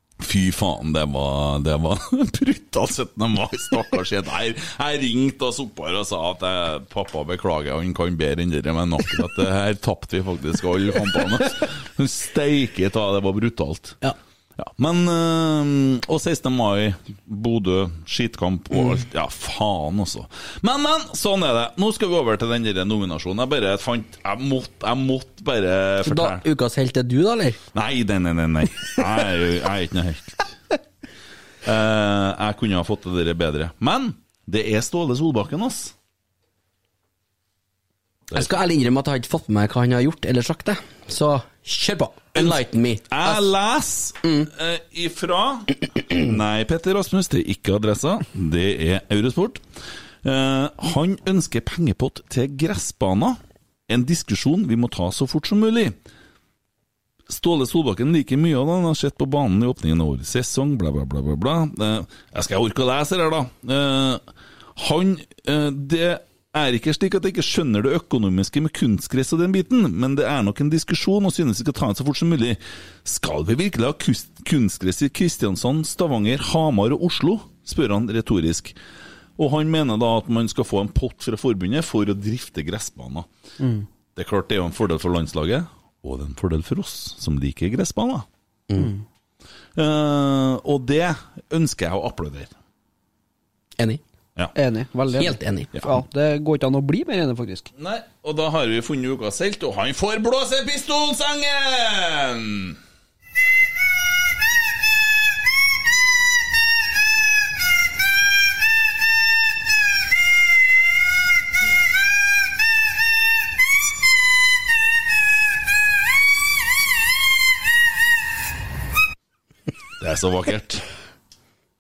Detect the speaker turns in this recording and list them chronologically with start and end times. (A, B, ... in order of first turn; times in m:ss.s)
0:00.2-0:14.0 A
0:14.6-0:26.4 A
0:26.0-0:27.6 B
0:27.7-0:30.5 A
0:31.6-0:35.9 A
0:38.3-0:43.4 B
0:42.3-0:49.6 A
0:44.2-0:44.5 B
0:50.2-0:56.0 A
0:57.3-1:04.2 A
1:04.8-1:18.8 A
1:19.4-1:23.3 A
1:23.6-1:23.9 C
1:24.2-1:28.3 A
1:28.8-1:29.0 C
1:29.8-1:32.5 A
1:34.6-1:37.7 C
1:35.2-1:35.7 B
1:37.8-1:42.8 A
2:00.0-2:00.8 A